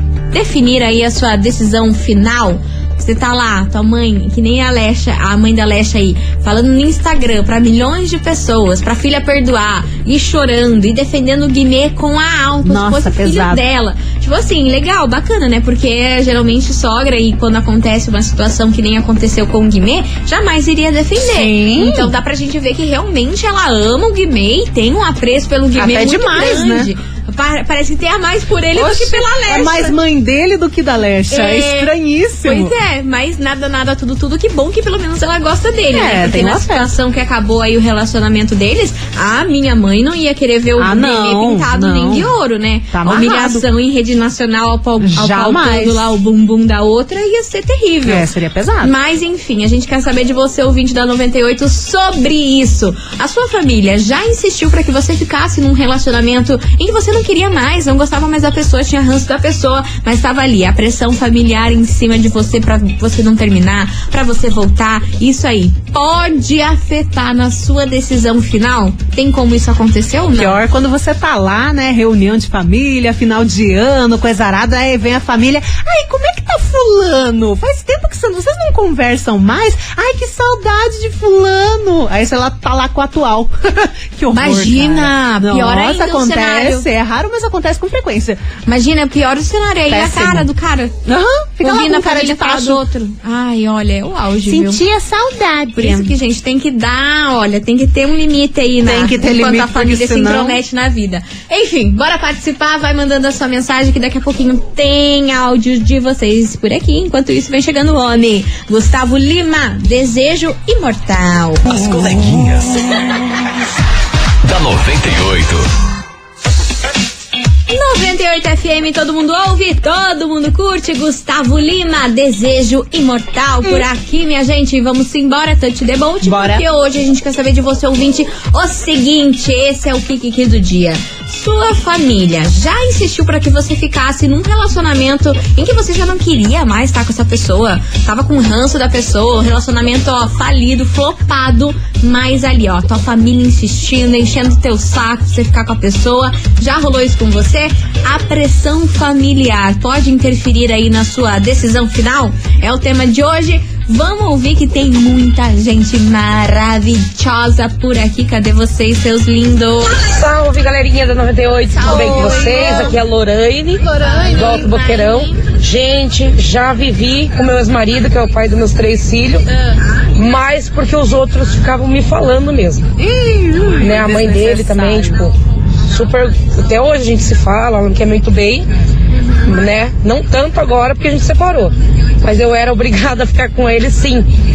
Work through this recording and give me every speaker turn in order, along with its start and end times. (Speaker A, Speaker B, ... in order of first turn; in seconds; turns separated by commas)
Speaker A: 0.3-29.9, Speaker B: 12.6-13.6, Speaker B: 21.2-22.1, Speaker B: 25.8-26.9, Speaker B: 28.7-32.7, Speaker A: 31.3-31.9, Speaker A: 32.4-48.3, Speaker B: 35.9-36.9, Speaker B: 40.8-42.3, Speaker B: 42.9-43.6, Speaker B: 45.0-46.1, Speaker B: 48.0-48.9, Speaker A: 48.8-70.6, Speaker B: 70.3-88.4, Speaker A: 84.3-86.9, Speaker A: 88.7-91.0, Speaker B: 89.9-90.5, Speaker B: 91.0-92.8, Speaker A: 91.6-94.8, Speaker B: 94.5-96.1, Speaker A: 95.8-111.6, Speaker B: 98.8-100.6, Speaker C: 111.6-112.9, Speaker C: 114.4-115.7, Speaker A: 117.7-160.0, Speaker B: 126.2-126.6, Speaker D: 159.9-169.4, Speaker B: 161.7-163.0, Speaker A: 161.7-163.0, Speaker B: 163.8-164.7, Speaker A: 164.0-165.4, Speaker A: 169.4-169.8, Speaker D: 170.2-172.9, Speaker B: 173.0-175.3, Speaker D: 173.8-175.3, Speaker D: 175.9-178.7, Speaker D: 179.4-184.2